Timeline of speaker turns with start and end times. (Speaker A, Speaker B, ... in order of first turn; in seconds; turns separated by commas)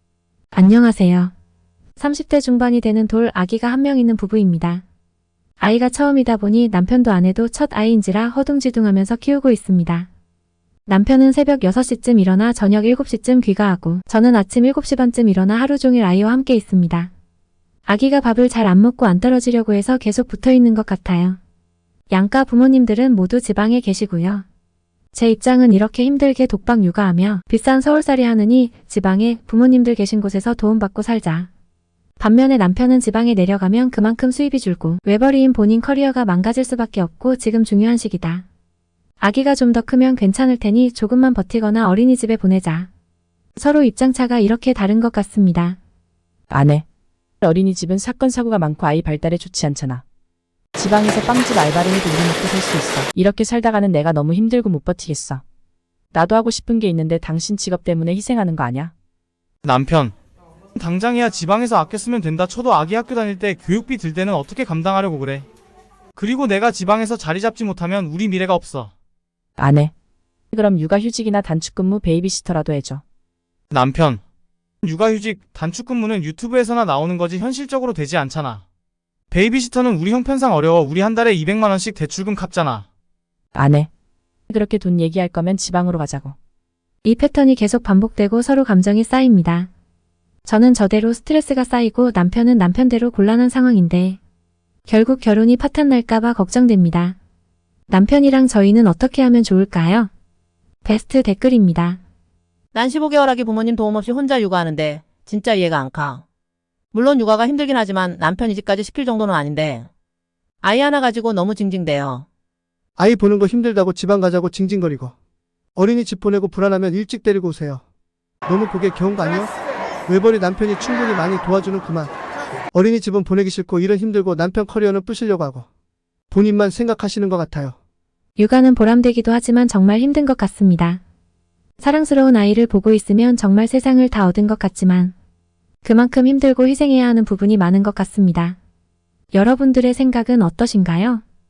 Speaker A: 0.5-1.3, Speaker A: 2.0-4.8, Speaker A: 5.6-10.1, Speaker A: 10.8-17.1, Speaker A: 17.9-21.4, Speaker A: 22.1-24.4, Speaker A: 25.1-31.5, Speaker A: 32.2-38.5, Speaker A: 39.2-42.9, Speaker A: 43.5-45.8, Speaker B: 46.5-46.8, Speaker B: 47.4-50.0, Speaker B: 50.7-55.4, Speaker B: 56.1-58.9, Speaker C: 59.6-60.1, Speaker C: 60.8-65.5, Speaker C: 66.2-68.9, Speaker B: 69.6-69.9, Speaker B: 70.5-73.0, Speaker C: 73.7-74.2, Speaker C: 74.8-78.6, Speaker C: 79.3-82.8, Speaker B: 83.5-83.9, Speaker B: 84.5-86.3, Speaker A: 87.0-89.7, Speaker A: 90.4-94.2, Speaker A: 94.9-97.2, Speaker A: 97.9-100.1, Speaker A: 100.8-102.0, Speaker D: 102.7-106.2, Speaker D: 106.9-109.9, Speaker D: 110.6-112.3, Speaker E: 113.0-115.1, Speaker E: 115.8-117.8, Speaker E: 118.5-119.5, Speaker E: 120.1-122.1, Speaker E: 122.7-125.7, Speaker E: 126.3-127.8, Speaker A: 128.4-131.0, Speaker A: 131.8-135.1, Speaker A: 135.8-138.6, Speaker A: 139.3-141.2